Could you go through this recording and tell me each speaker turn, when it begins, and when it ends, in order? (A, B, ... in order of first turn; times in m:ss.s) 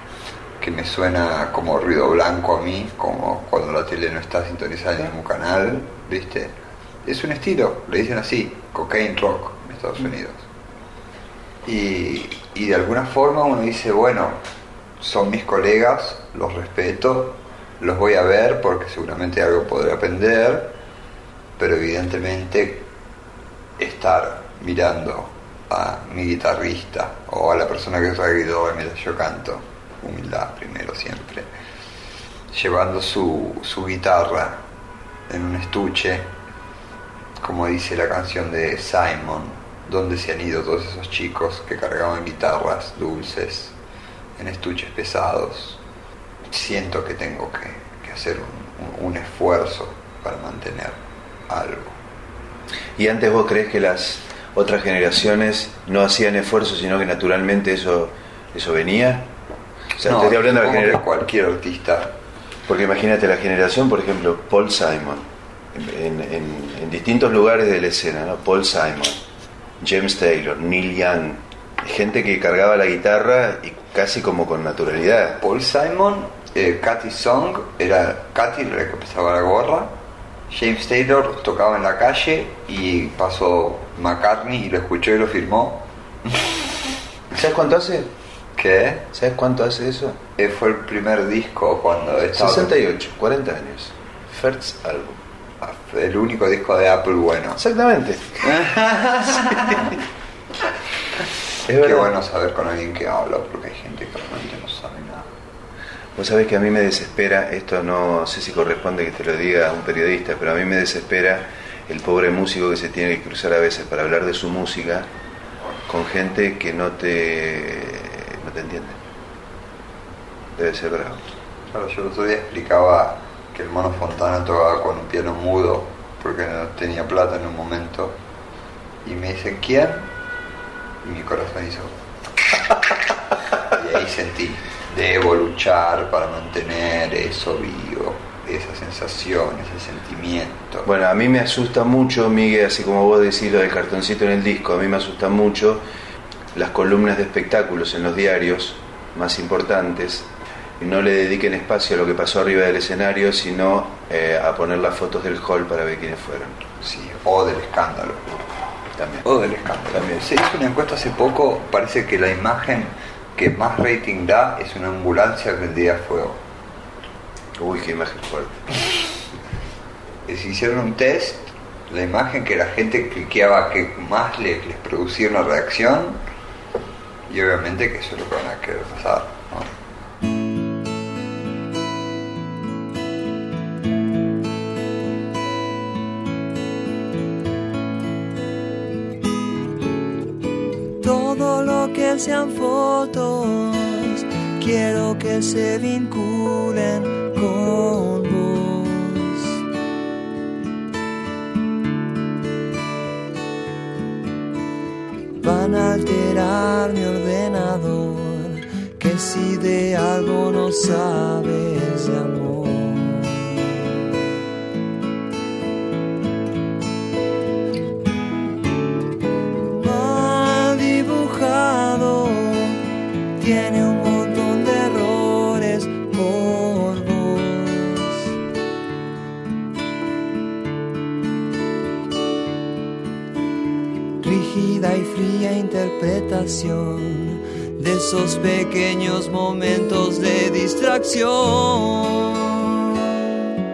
0:00.6-0:10.4 A
0:11.6-0:14.4 A
0:15.0-0:20.7 A
0:21.6-0:22.8 A
0:23.8-0:31.5 A
0:32.5-0:34.6 A
0:35.3-0:36.3 A
0:37.4-0:43.8 A
0:44.4-0:45.8 A
0:46.5-0:51.9 A
0:53.0-0:59.3 B
1:00.0-1:01.0 B
1:00.0-1:02.1 A
1:02.7-1:09.2 B
1:09.8-1:15.4 B
1:15.4-1:19.9 A
1:20.5-1:26.5 A
1:27.3-1:28.1 B
1:28.6-1:29.0 A
1:29.1-1:30.2 B
1:30.4-1:32.7 A
1:32.3-1:35.2 B
1:35.6-1:37.6 A
1:37.6-1:38.4 B
1:38.4-1:40.0 A
1:41.6-1:42.1 B
1:41.6-1:45.3 A
1:46.2-1:55.1 B
1:55.8-1:59.0 B
2:00.5-2:01.3 B
2:01.7-2:08.2 A
2:09.0-2:10.1 A
2:11.0-2:12.0 A
2:13.7-2:20.9 A
2:20.8-2:25.8 B
2:26.5-2:30.3 B
2:30.8-2:36.6 B
2:36.8-2:38.2 A
2:39.0-2:39.2 B
2:39.2-2:46.4 A
2:39.9-2:40.2 B
2:47.6-2:48.6 B
2:50.2-2:56.2 A
2:57.3-2:59.7 A
3:11.0-3:19.6 C
3:25.4-3:34.0 C
3:39.6-3:42.8 C
3:43.4-3:48.4 C
3:54.2-4:03.5 C